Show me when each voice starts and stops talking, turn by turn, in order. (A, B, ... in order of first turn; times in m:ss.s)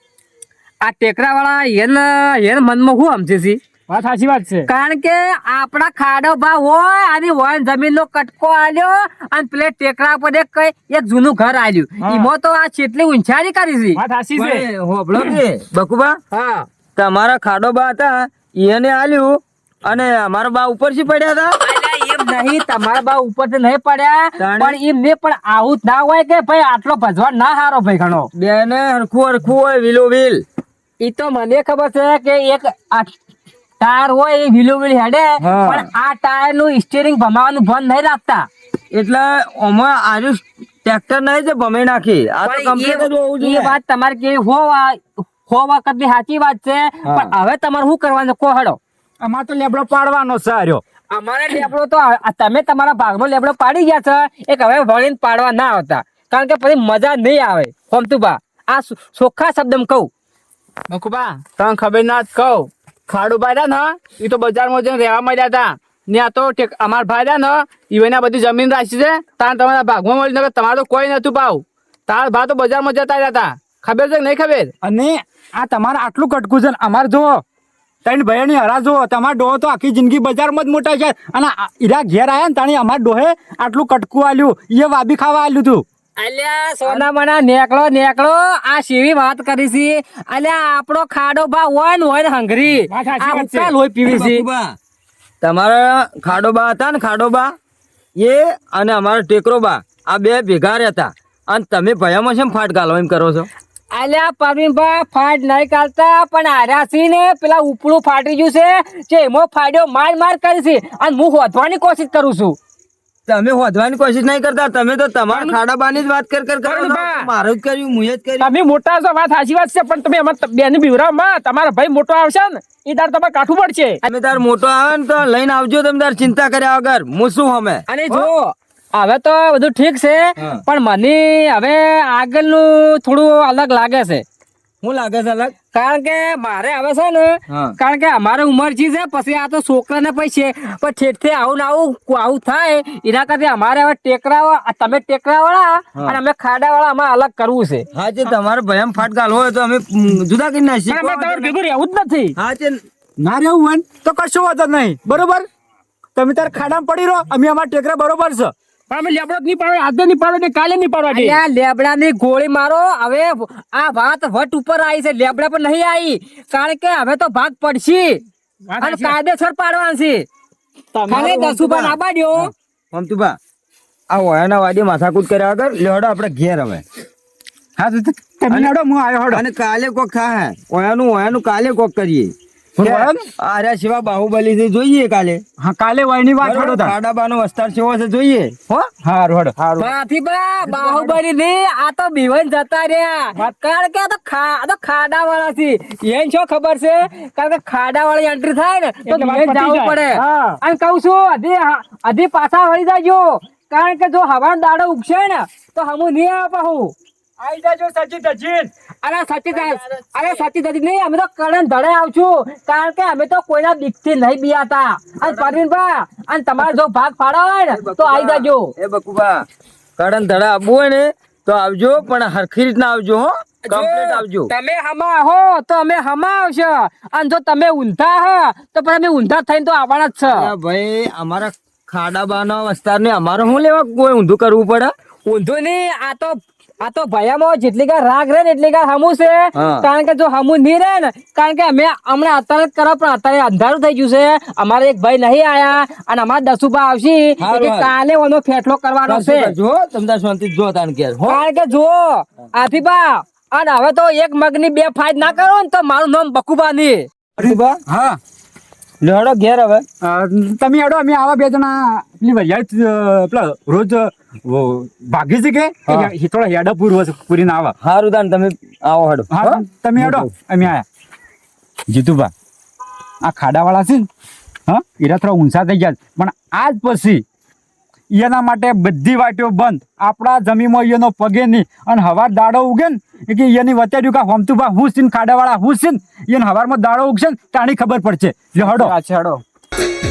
0:00.8-0:03.6 A
0:03.9-0:04.7 B
0:04.7-0:14.0 A
0:12.0-0:12.3 C
0:14.0-0:14.6 B
0:14.4-0:16.2 C
0:16.3-0:16.7 A
0:17.0-0:21.6 C
0:21.6-0:28.3 A
0:24.4-0:24.8 C
0:28.3-0:30.4 C
0:31.0-0:33.2 A
0:33.8-0:38.5 A
0:35.4-0:35.9 C
0:38.9-0:43.8 C
0:42.4-0:48.8 A
0:47.1-0:47.3 C
0:49.2-0:50.8 D
0:51.1-1:00.1 A
1:00.9-1:14.7 E
1:14.8-1:17.4 D
1:18.0-1:25.8 D
1:26.2-1:34.4 A
1:32.9-1:33.7 B
1:34.0-1:34.8 C
1:35.4-1:37.5 C
1:38.2-1:43.5 C
1:43.9-1:52.6 A
1:53.3-1:58.5 C
1:55.3-1:55.6 B
1:56.6-1:57.3 B
1:58.4-2:04.0 B
2:04.0-2:08.3 C
2:07.9-2:14.2 A
2:14.8-2:15.5 C
2:15.7-2:27.9 A
2:17.5-2:17.8 C
2:27.9-2:31.6 C
2:30.9-2:32.3 B
2:32.4-2:32.8 C
2:33.2-2:35.4 D
2:36.2-2:38.5 D
2:38.9-2:41.4 B
2:41.1-2:48.2 A
2:48.7-2:49.2 B
2:48.8-2:50.3 A
2:50.9-2:51.5 B
2:51.1-2:52.5 A
2:51.1-2:52.0 C
2:52.9-2:53.4 C
2:54.1-2:56.8 C
2:57.8-2:59.4 D
2:59.3-3:05.4 C
3:02.8-3:03.2 D
3:05.6-3:06.9 D
3:06.4-3:08.9 C
3:09.0-3:09.6 D
3:09.6-3:09.9 C
3:09.8-3:26.9 A
3:10.6-3:11.2 D
3:19.1-3:20.6 B
3:27.4-3:28.7 D
3:29.0-3:38.7 A
3:35.3-3:35.5 C
3:37.7-3:39.4 C
3:40.0-3:44.5 C
3:43.7-3:50.5 A
3:50.2-3:54.9 C
3:55.3-4:09.5 A
3:59.6-3:59.9 C
4:07.4-4:07.9 C
4:09.1-4:11.4 C
4:11.3-4:17.1 A
4:17.4-4:17.8 C
4:17.4-4:18.2 D
4:19.0-4:19.8 C
4:20.0-4:27.8 D
4:27.8-4:30.3 C
4:29.3-4:30.9 D
4:31.9-4:32.3 D
4:33.2-4:34.1 D
4:34.7-4:37.2 D
4:38.1-4:49.0 D
4:48.6-4:49.4 E